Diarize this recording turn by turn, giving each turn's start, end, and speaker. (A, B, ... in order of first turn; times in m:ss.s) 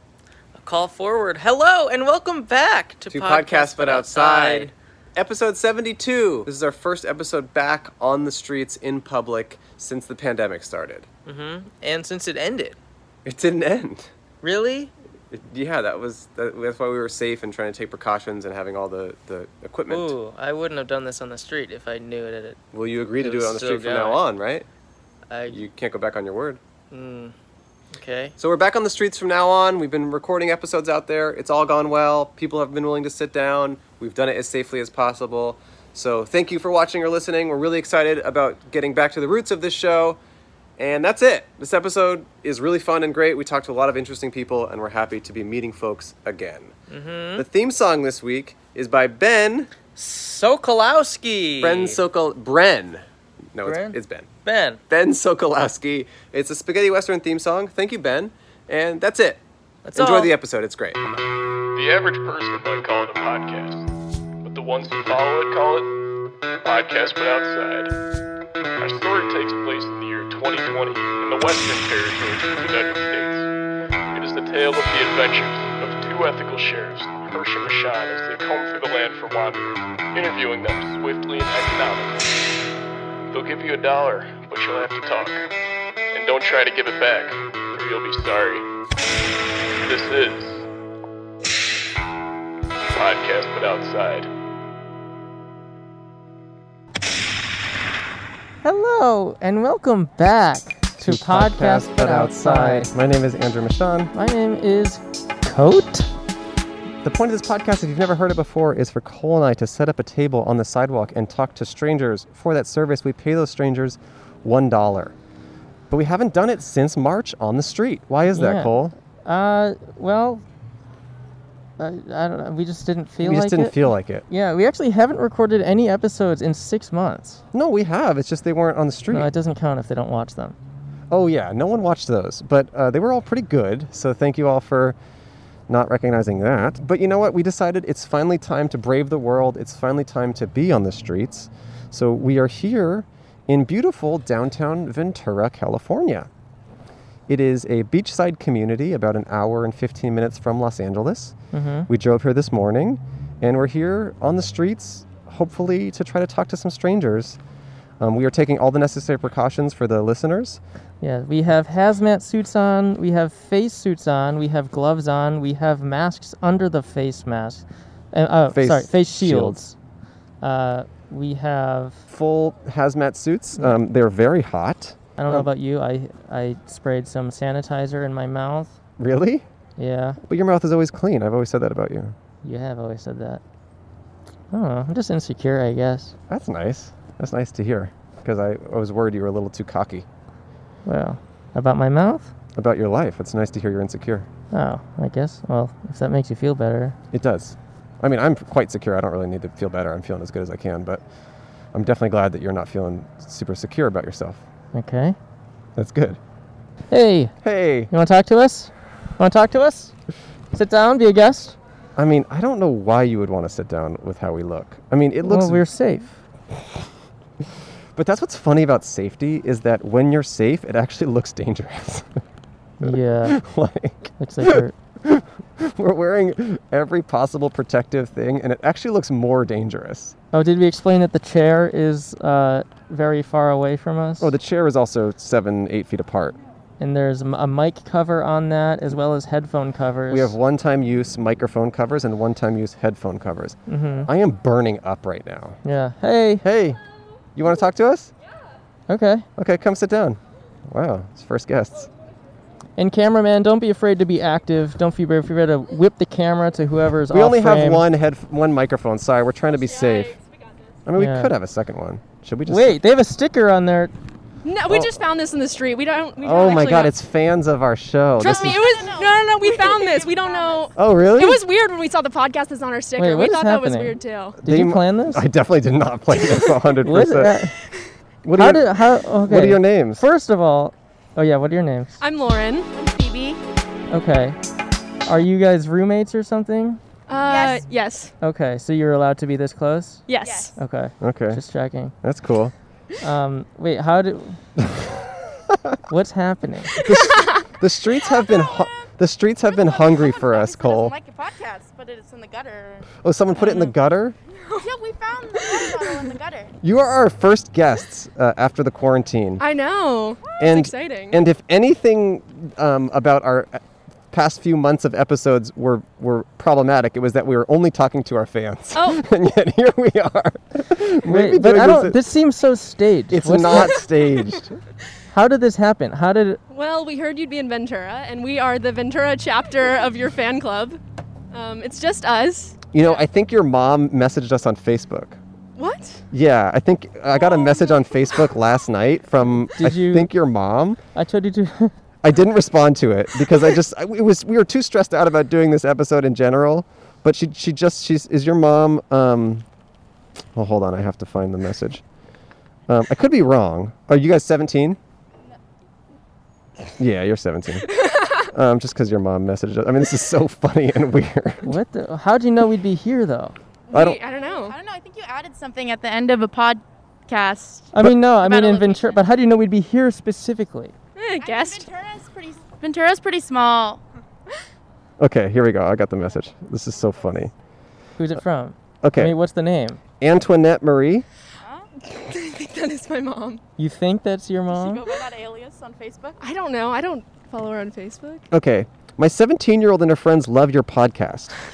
0:00.6-0:04.7 A
0:03.1-0:11.1 B
0:11.2-0:12.8 A
0:13.2-0:14.1 B
0:14.4-0:14.9 A
0:15.3-0:20.2 B
0:19.9-0:22.6 A
0:22.7-0:24.6 B
0:23.2-0:24.2 A
0:25.3-0:25.6 A
0:25.5-0:26.6 B
0:26.9-0:27.4 A
0:27.9-0:28.4 A
0:28.4-0:40.2 B
0:40.8-0:46.7 B
0:46.9-0:47.4 A
0:47.4-0:49.7 B
0:50.0-0:52.0 A
0:51.6-0:53.0 B
0:53.5-0:54.3 B
0:53.6-0:54.8 A
0:54.9-1:01.0 B
0:59.8-1:00.3 A
1:01.7-1:03.9 C
1:04.4-1:05.9 C
1:06.6-1:07.9 C
1:08.8-1:13.5 C
1:14.1-1:22.3 C
1:23.3-1:25.4 C
1:26.1-1:28.6 C
1:29.8-1:30.6 C
1:32.9-1:34.3 C
1:38.6-1:42.9 A
1:41.0-1:44.1 B
1:44.1-1:46.1 A
1:47.0-1:55.1 B
1:55.9-1:58.9 B
1:58.3-2:00.4 A
2:01.8-2:03.8 A
2:03.2-2:04.2 B
2:04.3-2:07.4 A
2:07.5-2:09.3 B
2:09.1-2:10.6 A
2:11.1-2:15.0 B
2:15.7-2:26.3 B
2:27.3-2:31.4 B
2:31.5-2:31.9 A
2:31.9-2:37.4 B
2:38.0-2:40.6 B
2:41.0-2:49.7 A
2:48.5-2:49.7 B
2:50.4-2:52.0 A
2:52.1-2:55.5 B
2:55.2-2:58.8 A
2:59.0-2:59.4 B
2:59.8-3:00.2 A
3:00.2-3:02.1 B
3:02.4-3:03.4 A
3:04.5-3:06.1 A
3:06.3-3:10.0 B
3:10.8-3:12.3 A
3:12.6-3:14.3 B
3:14.5-3:17.0 A
3:17.1-3:21.0 B
3:21.7-3:24.4 B
3:24.7-3:25.2 A
3:25.8-3:26.2 B
3:26.9-3:27.3 A
3:27.4-3:27.9 B
3:27.9-3:29.9 A
3:30.5-3:31.6 A
3:32.0-3:35.6 B
3:35.2-3:36.2 A
3:38.0-3:42.2 B
3:42.8-3:43.4 A
3:42.8-3:50.2 B
3:44.2-3:44.7 A
3:50.3-3:54.3 A
3:54.2-3:56.4 B
3:56.8-4:00.3 A
4:00.1-4:05.6 B
4:03.7-4:04.1 A
4:05.6-4:06.4 A
4:06.4-4:06.8 B
4:07.3-4:08.1 B
4:08.9-4:09.2 A
4:09.4-4:11.9 B
4:12.8-4:17.8 A
4:17.1-4:20.2 B
4:19.5-4:20.8 D
4:20.8-4:22.8 B
4:21.0-4:21.3 A
4:22.5-4:23.9 A
4:24.4-4:26.9 D
4:26.2-4:28.6 B
4:28.2-4:34.4 D
4:28.2-4:30.7 E
4:30.8-4:31.4 B
4:33.0-4:35.2 A
4:34.4-4:37.4 B
4:36.2-4:36.5 D
4:36.8-4:37.5 A
4:38.2-4:40.0 B
4:38.4-4:42.0 A
4:42.0-4:42.7 D
4:42.7-4:43.4 E
4:43.9-4:44.4 A
4:45.0-4:46.8 A
4:47.1-4:48.1 D
4:47.1-4:47.6 E
4:48.2-4:50.0 A
4:50.1-4:50.5 D
4:50.2-4:50.5 E
4:50.6-4:51.9 A
4:51.0-4:51.4 B
4:52.0-4:52.5 B
4:53.0-4:54.4 A
4:54.6-4:55.8 B
4:55.9-4:56.7 A
4:56.8-5:00.9 B
4:56.9-4:57.5 D
4:58.1-4:58.9 E
4:59.5-5:03.7 E
5:03.0-5:04.2 B
5:04.4-5:04.7 D
5:04.6-5:06.5 E
5:05.4-5:06.1 D
5:06.6-5:09.4 B
5:09.4-5:11.2 D
5:10.4-5:22.0 B
5:18.7-5:19.0 D
5:21.0-5:23.8 A
5:23.1-5:24.6 B
5:23.6-5:24.2 D
5:25.1-5:26.4 A
5:26.5-5:30.8 D
5:31.3-5:32.7 D
5:32.7-5:35.2 B
5:35.6-5:36.0 D
5:36.1-5:40.8 B
5:39.5-5:40.1 A
5:40.9-5:41.7 A
5:42.0-5:49.4 B
5:50.3-5:51.8 B
5:52.7-5:54.8 B
5:56.8-5:57.7 B
5:57.7-5:58.3 D
5:58.3-6:01.5 B
6:01.4-6:03.4 A
6:03.7-6:04.6 D
6:03.7-6:04.0 B
6:04.1-6:09.0 E
6:07.7-6:10.7 A
6:11.0-6:11.7 D
6:11.2-6:13.8 E
6:15.0-6:17.3 B
6:18.0-6:19.8 A
6:18.8-6:19.1 B
6:20.0-6:21.0 B
6:21.4-6:21.7 E
6:21.8-6:23.4 D
6:23.6-6:24.8 A
6:24.5-6:26.2 E
6:26.2-6:28.3 D
6:28.3-6:31.4 B